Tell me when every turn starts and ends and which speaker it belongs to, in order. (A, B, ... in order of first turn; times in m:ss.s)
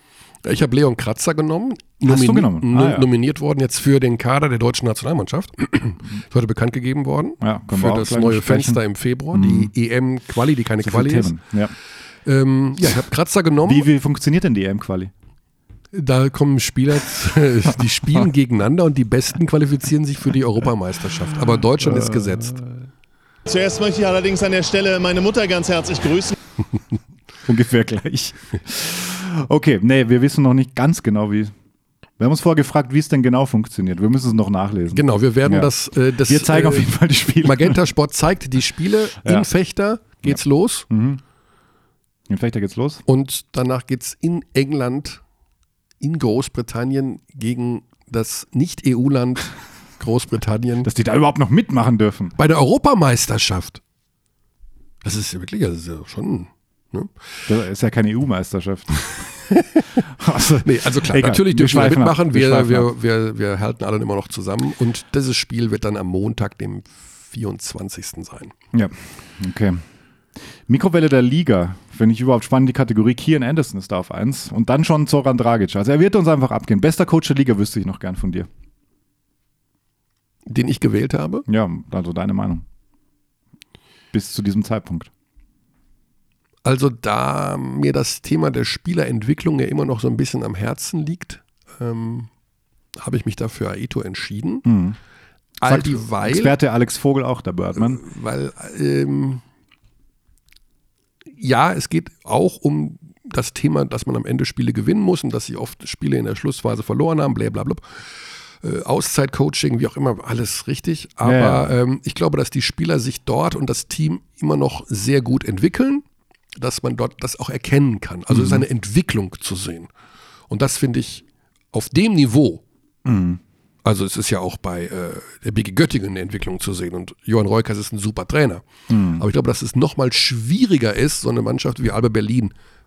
0:00.4-0:11.4 A
0:02.0-0:03.0 B
0:07.4-0:08.8 B
0:09.3-0:09.7 B
0:10.8-0:11.7 B
0:12.2-0:13.9 A
0:13.6-0:15.1 B
0:15.9-0:22.6 A
0:21.8-0:22.8 B
0:23.4-0:26.3 C
0:27.4-0:31.5 B
0:32.2-0:37.8 B
0:34.9-0:40.9 A
0:39.2-0:39.5 B
0:40.2-0:41.2 B
0:42.3-0:43.0 B
0:43.0-0:45.2 A
0:46.0-0:50.9 A
0:50.8-0:52.4 B
0:52.4-0:53.8 A
0:55.0-0:57.1 A
0:57.5-0:59.3 B
0:59.2-0:59.8 A
1:00.1-1:02.9 B
1:00.6-1:08.5 A
1:08.7-1:09.8 B
1:10.7-1:18.5 B
1:20.4-1:21.4 A
1:21.5-1:22.6 B
1:24.1-1:25.1 B
1:26.6-1:32.3 A
1:33.0-1:34.7 A
1:34.6-1:35.0 B
1:35.6-1:36.5 A
1:35.6-1:38.0 B
1:37.8-1:39.4 A
1:41.4-1:56.0 A
1:51.2-1:51.7 B
1:56.6-1:59.9 A
1:58.3-1:58.6 B
2:00.5-2:02.6 A
2:03.0-2:03.4 B
2:03.8-2:12.5 A
2:08.9-2:09.2 B